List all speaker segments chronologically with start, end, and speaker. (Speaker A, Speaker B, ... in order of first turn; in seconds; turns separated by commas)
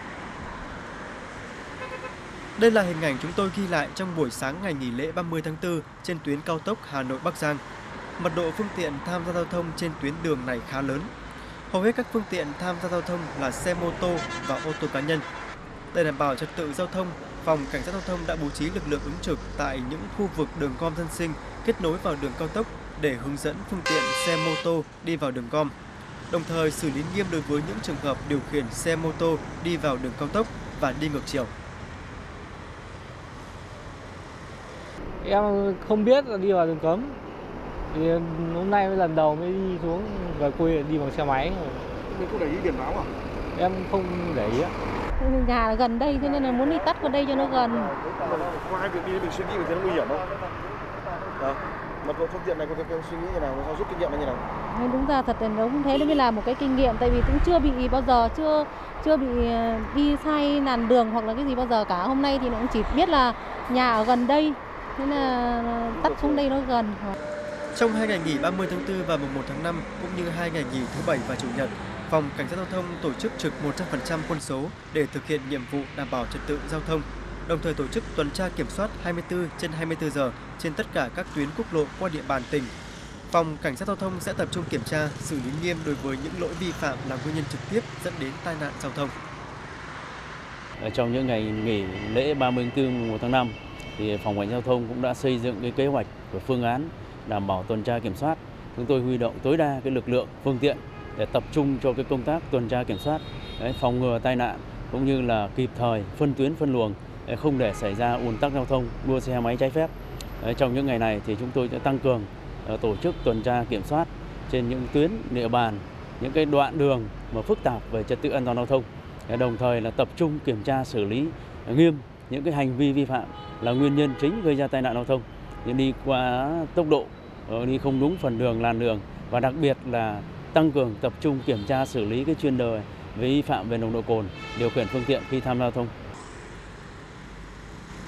Speaker A: 2.6-7.6, Speaker A: 8.2-11.1, Speaker A: 11.7-15.2, Speaker A: 15.9-25.7, Speaker A: 26.3-31.5, Speaker B: 35.2-37.2, Speaker B: 37.9-41.8, Speaker C: 42.0-43.1, Speaker B: 43.5-44.7, Speaker D: 45.2-47.9, Speaker C: 46.2-50.5, Speaker C: 51.2-54.4, Speaker D: 54.7-67.1, Speaker C: 55.9-56.2, Speaker C: 65.9-66.4, Speaker A: 67.7-82.7, Speaker A: 83.3-89.1, Speaker E: 90.8-135.9